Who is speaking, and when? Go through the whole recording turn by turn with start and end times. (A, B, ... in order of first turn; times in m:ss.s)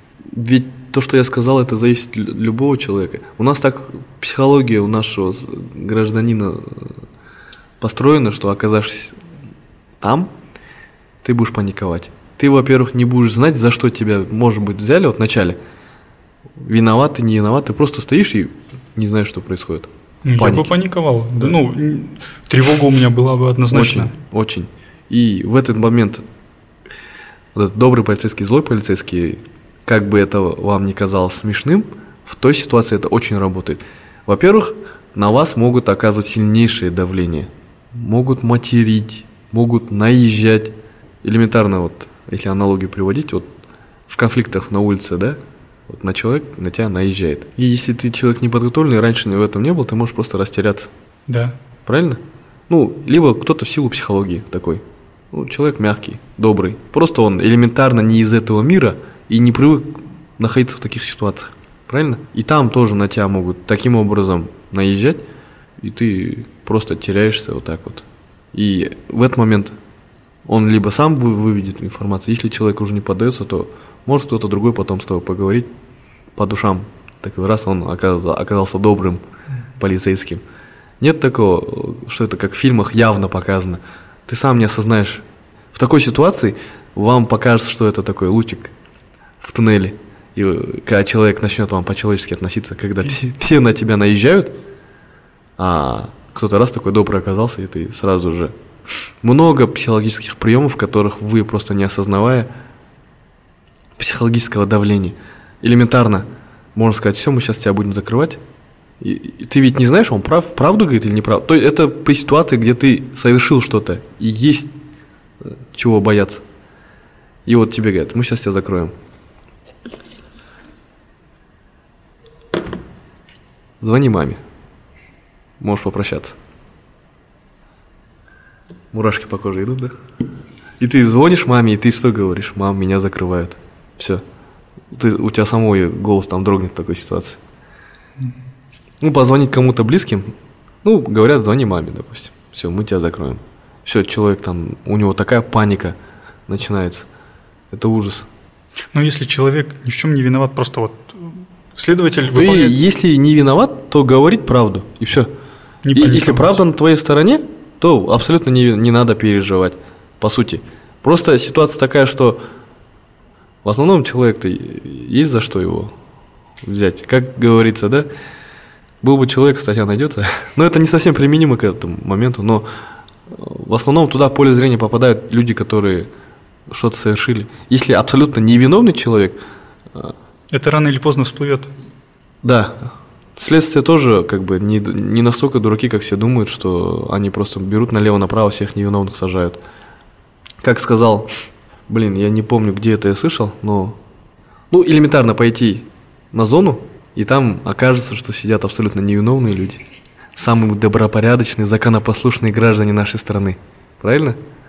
0:00.3-0:07.0 A
0:07.8-0:09.2 A
0:10.0-0:10.3 A
0:11.2-0:15.6 A
0:16.6-0:20.7 A
0:20.2-0:24.1 B
0:23.7-0:26.2 A
0:27.5-0:43.5 A
0:44.1-0:50.9 A
0:51.3-0:51.6 B
0:51.8-1:05.2 A
1:05.8-1:09.8 A
1:10.4-1:15.7 A
1:16.4-1:19.2 A
1:19.8-1:20.4 A
1:21.0-1:28.7 A
1:29.4-1:34.5 A
1:35.6-1:38.5 A
1:39.2-1:42.5 A
1:44.0-1:48.4 A
1:49.0-1:54.7 A
1:55.4-1:56.4 A
1:57.4-1:58.9 A
2:03.8-2:04.4 A
2:05.6-2:06.4 A
2:08.9-2:09.9 A
2:10.8-2:14.2 A
2:14.9-2:17.4 A
2:19.0-2:26.0 A
2:26.5-2:27.1 A
2:27.7-2:28.3 A
2:28.9-2:32.8 B
2:32.3-2:35.3 A
2:35.8-2:36.6 B
2:35.9-2:42.4 A
2:43.6-2:45.9 A
2:46.6-2:48.1 A
2:49.0-2:52.7 A
2:53.3-2:56.1 A
2:56.7-2:59.4 A
3:00.5-3:01.7 B
3:02.4-3:09.6 A
3:10.6-3:11.3 A
3:11.9-3:14.0 A
3:14.7-3:19.8 A
3:20.4-3:24.4 A